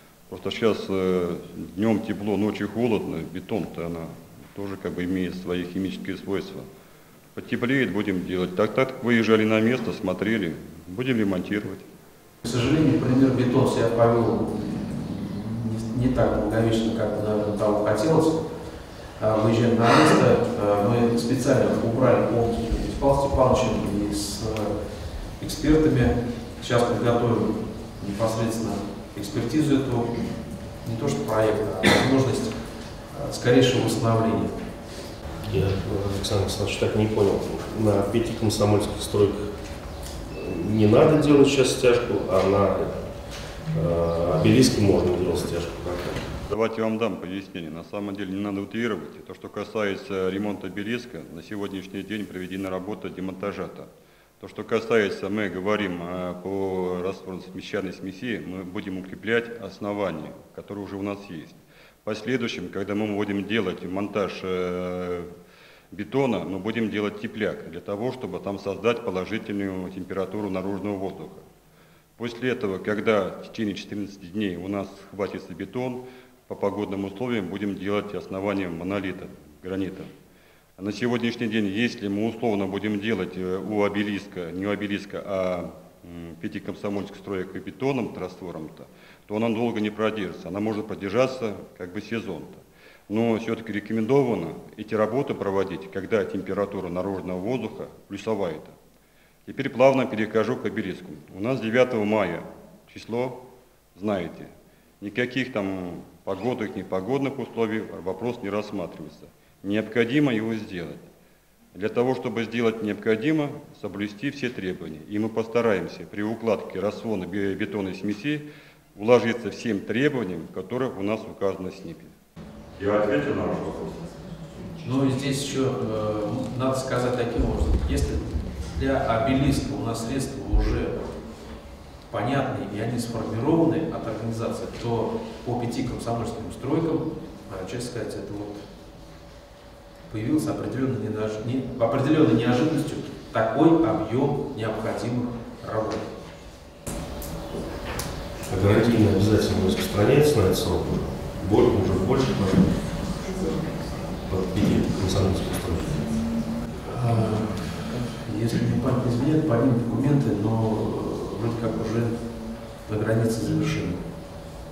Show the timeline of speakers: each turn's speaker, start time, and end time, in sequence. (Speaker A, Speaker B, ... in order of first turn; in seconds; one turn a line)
Speaker A: 0.3-6.7
Speaker A: 7.3-11.8
Speaker B: 12.4-18.4
Speaker B: 19.2-24.8
Speaker B: 25.4-30.2
Speaker B: 30.8-34.6
Speaker C: 35.5-39.5
Speaker C: 40.3-46.2
Speaker A: 46.5-53.9
Speaker A: 54.4-65.3
Speaker A: 65.9-71.4
Speaker A: 72.2-80.1
Speaker A: 80.8-98.7
Speaker A: 99.5-103.4
Speaker A: 104.0-104.5
Speaker A: 105.0-111.1
Speaker A: 111.7-122.1
Speaker A: 122.8-124.0
Speaker B: 124.8-131.1
Speaker B: 132.1-138.7
Speaker B: 140.1-146.1
Speaker C: 148.4-153.0
Speaker C: 154.2-156.0
Speaker B: 156.8-162.3
Speaker B: 162.8-164.0